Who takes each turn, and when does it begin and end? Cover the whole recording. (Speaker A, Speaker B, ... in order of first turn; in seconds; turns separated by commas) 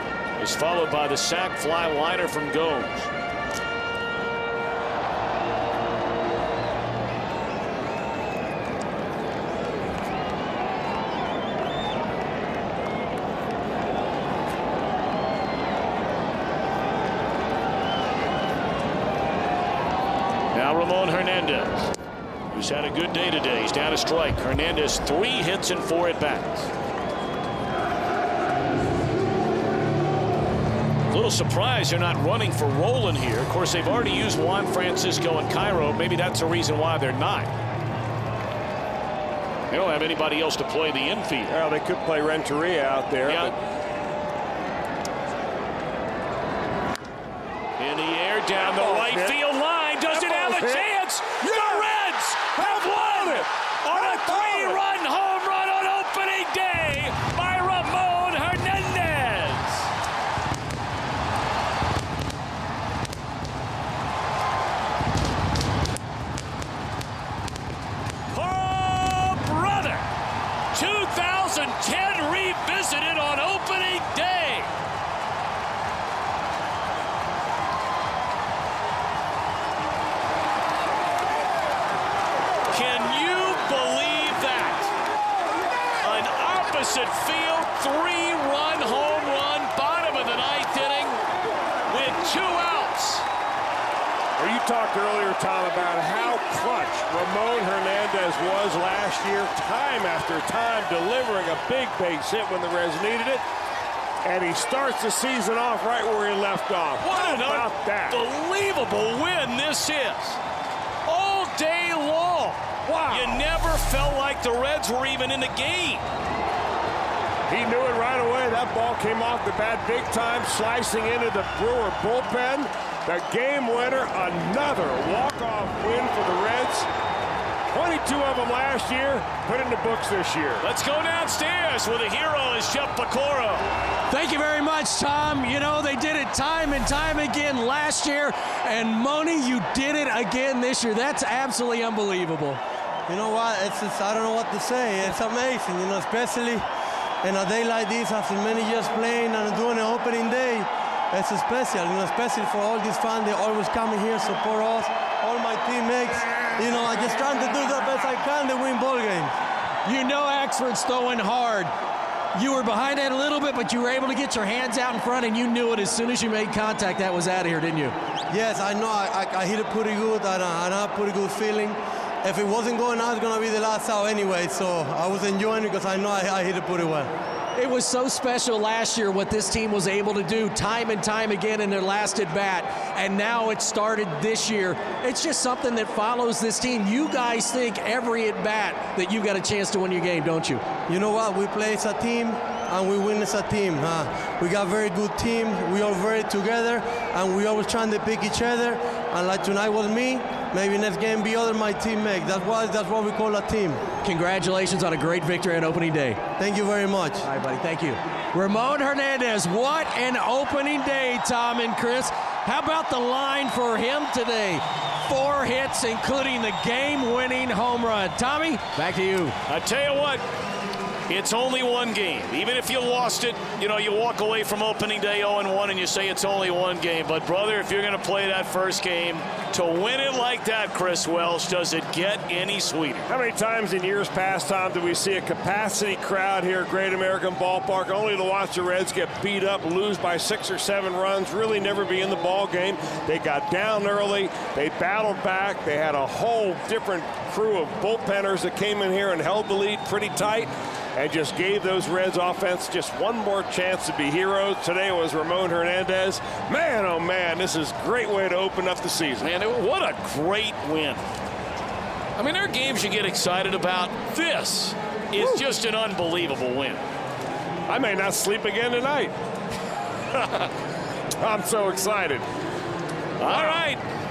Speaker A: 0.4-3.0, Speaker A: 20.5-21.9, Speaker A: 22.5-26.7, Speaker A: 31.1-37.5, Speaker A: 39.7-41.5, Speaker B: 41.5-43.4, Speaker A: 43.2-43.5, Speaker A: 47.8-59.9, Speaker B: 48.5-49.3, Speaker B: 50.1-50.9, Speaker B: 52.7-53.4, Speaker B: 54.1-54.7, Speaker A: 68.3-70.1, Speaker A: 70.7-74.7, Speaker A: 82.7-84.9, Speaker A: 86.0-91.2, Speaker A: 91.9-93.2, Speaker B: 94.4-103.4, Speaker B: 104.2-108.2, Speaker A: 107.0-110.4, Speaker A: 111.0-116.0, Speaker B: 112.9-113.4, Speaker B: 117.5-126.9, Speaker B: 127.7-130.6, Speaker A: 130.6-133.6, Speaker C: 134.1-142.6, Speaker D: 143.1-146.6, Speaker D: 147.2-159.3, Speaker C: 159.8-161.7, Speaker C: 162.3-167.9, Speaker D: 168.3-177.1, Speaker C: 177.6-190.6, Speaker D: 190.9-203.9, Speaker C: 204.0-206.2, Speaker D: 206.4-207.2, Speaker C: 207.2-219.3, Speaker A: 219.5-220.2, Speaker A: 221.1-233.1, Speaker B: 233.1-259.3, Speaker A: 259.2-261.0, Speaker A: 262.2-266.8, Speaker B: 267.7-269.2, Speaker B: 271.2-272.3, Speaker A: 273.2-273.8, Speaker B: 273.3-273.6